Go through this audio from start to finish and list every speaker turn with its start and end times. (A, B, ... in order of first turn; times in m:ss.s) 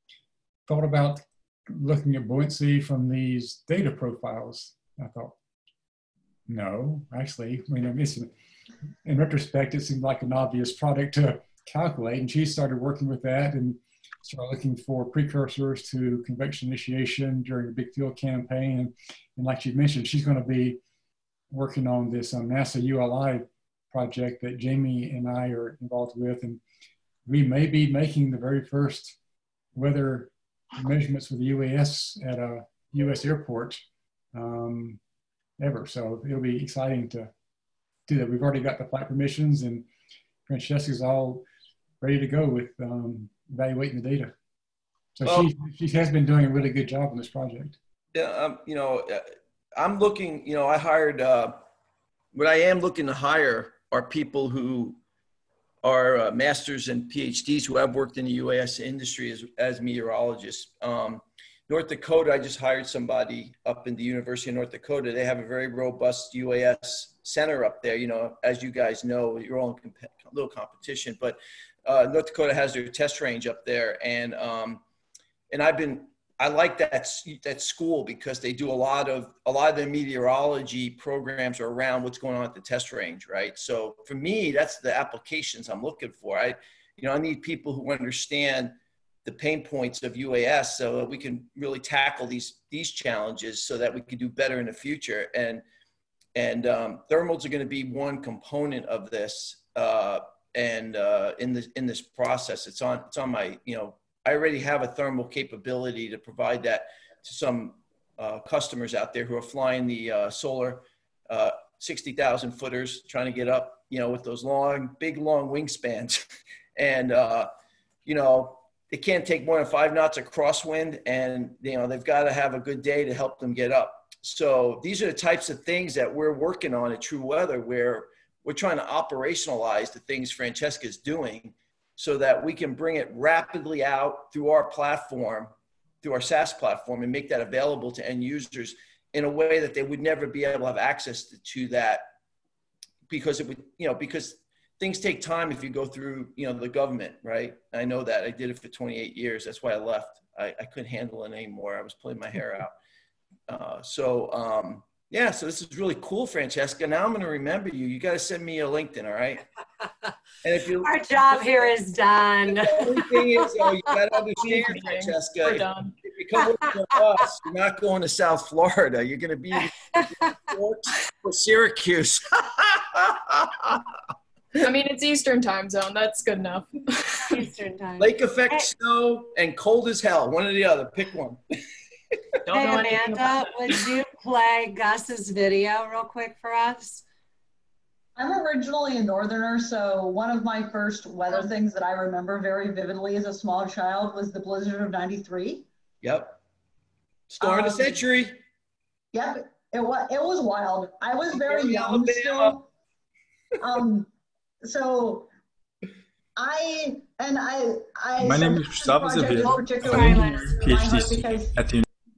0:00.7-0:05.3 A
0:06.5-0:08.3 A
0:09.0-0:20.8 A
0:21.5-0:26.6 A
0:27.2-0:29.2 A
0:29.7-0:35.0 A
0:35.6-0:37.3 A
0:38.1-0:39.9 A
0:40.4-0:41.4 A
0:42.0-0:44.4 A
0:45.2-0:47.8 A
0:45.2-0:45.5 B
0:48.1-0:49.2 B
0:49.8-0:51.6 B
0:52.3-0:55.0 B
0:55.8-1:14.8 B
1:15.5-1:35.6 B
1:36.3-1:56.2 B
1:56.8-1:57.5 B
1:58.0-2:22.1 B
2:23.1-2:32.7 B
2:33.5-2:39.4 B
2:40.4-2:41.7 B
2:40.8-2:43.5 C
2:42.5-2:53.8 B
2:44.4-2:45.9 D
2:54.5-2:57.4 D
2:57.3-2:58.7 C
2:58.0-3:01.4 B
3:02.5-3:03.4 D
3:02.5-3:07.0 C
3:08.2-3:15.7 E
3:16.0-3:16.4 B
3:17.3-3:18.4 B
3:17.4-3:18.0 E
3:19.1-3:22.6 E
3:21.3-3:22.6 B
3:23.6-3:24.1 E
3:24.6-3:25.3 E
3:26.4-3:31.6 E
3:28.2-3:31.8 F
3:29.4-3:30.5 C